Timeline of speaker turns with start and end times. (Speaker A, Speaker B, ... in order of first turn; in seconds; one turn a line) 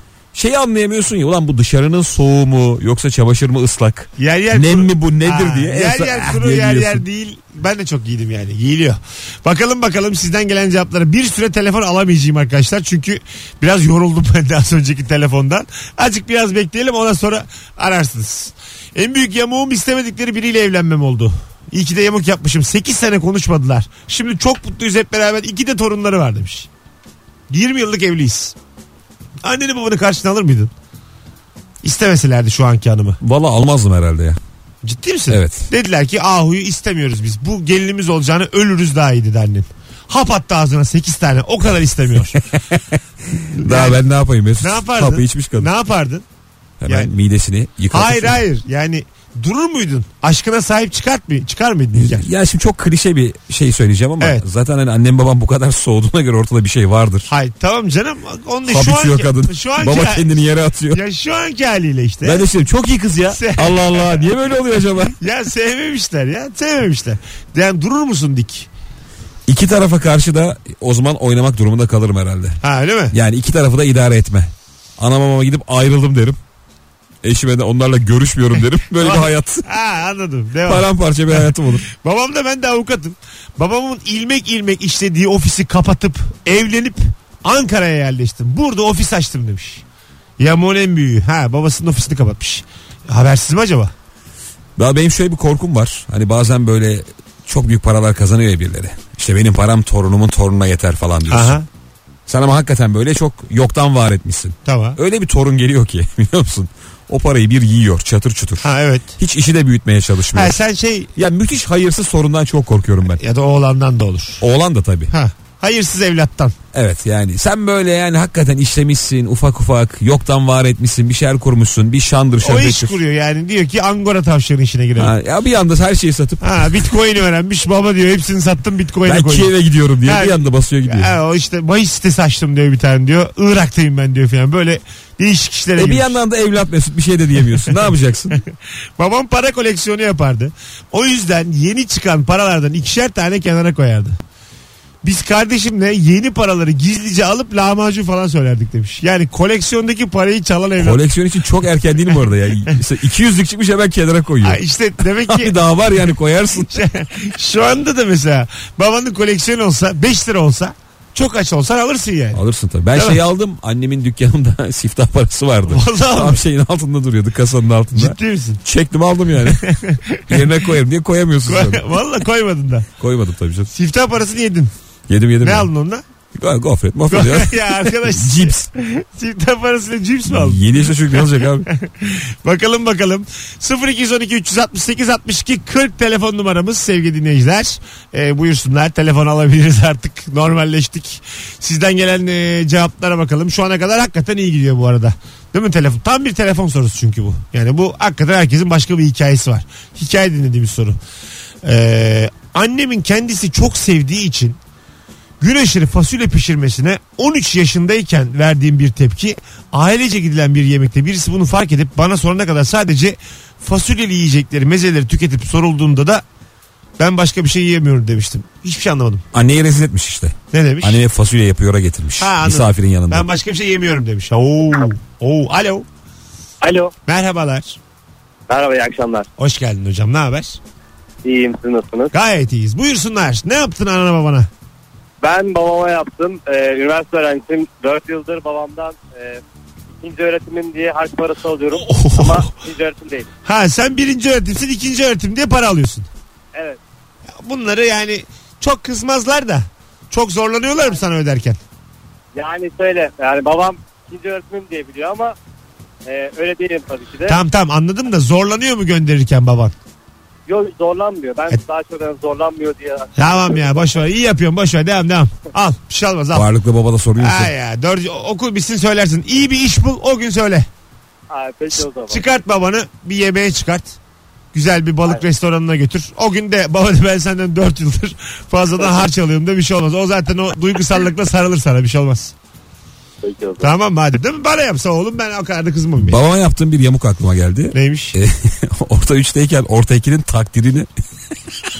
Speaker A: 0.3-7.0
Speaker B: 4.2-26.7
Speaker B: 27.5-28.6
Speaker B: 29.4-30.7
Speaker B: 31.8-33.2
Speaker A: 33.2-34.4
Speaker B: 34.8-42.4
Speaker A: 35.3-35.7
Speaker A: 43.3-45.7
Speaker B: 43.6-44.0
Speaker B: 44.6-46.2
Speaker A: 46.8-48.4
Speaker B: 46.9-47.1
Speaker B: 47.9-52.2
Speaker A: 51.9-57.3
Speaker B: 57.3-60.3
Speaker A: 58.6-61.0
Speaker B: 60.9-62.5
Speaker A: 62.2-65.2
Speaker B: 63.3-64.2
Speaker B: 65.2-68.7
Speaker A: 69.5-72.6
Speaker B: 72.6-73.1
Speaker A: 73.1-76.4
Speaker A: 77.2-79.7
Speaker B: 79.0-89.8
Speaker A: 80.7-81.8
Speaker B: 90.4-93.9
Speaker A: 94.8-101.6
Speaker B: 101.3-101.7
Speaker A: 102.3-108.7
Speaker B: 104.6-105.0
Speaker B: 108.6-109.2
Speaker A: 109.2-110.6
Speaker B: 110.3-111.1
Speaker A: 111.2-113.2
Speaker B: 113.1-114.4
Speaker A: 114.4-115.1
Speaker B: 115.1-116.5
Speaker A: 116.7-122.9
Speaker B: 122.4-125.1
Speaker A: 125.0-126.8
Speaker B: 126.4-129.5
Speaker A: 129.1-131.1
Speaker B: 130.0-136.2
Speaker A: 135.8-138.4
Speaker B: 139.0-144.2
Speaker B: 145.0-151.0
Speaker A: 150.8-154.6
Speaker B: 154.4-155.5
Speaker A: 155.3-156.7
Speaker B: 156.6-162.4
Speaker A: 162.3-169.6
Speaker B: 162.9-163.2
Speaker B: 165.7-166.4
Speaker B: 167.9-168.6
Speaker B: 169.4-170.5
Speaker A: 170.3-171.8
Speaker B: 171.4-172.9
Speaker A: 173.0-173.7
Speaker B: 173.7-174.7
Speaker A: 175.1-175.7
Speaker B: 175.4-176.0
Speaker A: 176.3-178.6
Speaker B: 177.1-201.0
Speaker A: 180.3-181.7
Speaker B: 201.6-204.6
Speaker B: 205.4-216.2
Speaker B: 217.0-219.2
Speaker A: 219.3-223.3
Speaker B: 220.5-221.0
Speaker B: 222.2-225.8
Speaker C: 226.6-226.9
Speaker B: 227.1-227.8
Speaker C: 228.5-229.2
Speaker B: 229.4-230.6
Speaker C: 231.2-232.1
Speaker B: 232.1-234.5
Speaker C: 235.2-239.4
Speaker C: 240.0-243.2
Speaker B: 241.7-242.5
Speaker B: 243.4-246.1
Speaker B: 247.3-251.6
Speaker C: 252.3-255.3
Speaker C: 256.1-257.4
Speaker B: 257.2-259.8
Speaker C: 260.5-263.1
Speaker B: 263.2-266.5
Speaker A: 266.3-267.5
Speaker B: 267.2-270.7
Speaker C: 271.3-272.2
Speaker B: 272.1-274.0
Speaker B: 274.5-282.3
Speaker C: 283.2-283.6
Speaker B: 283.6-286.2
Speaker A: 286.0-290.9
Speaker B: 287.7-288.2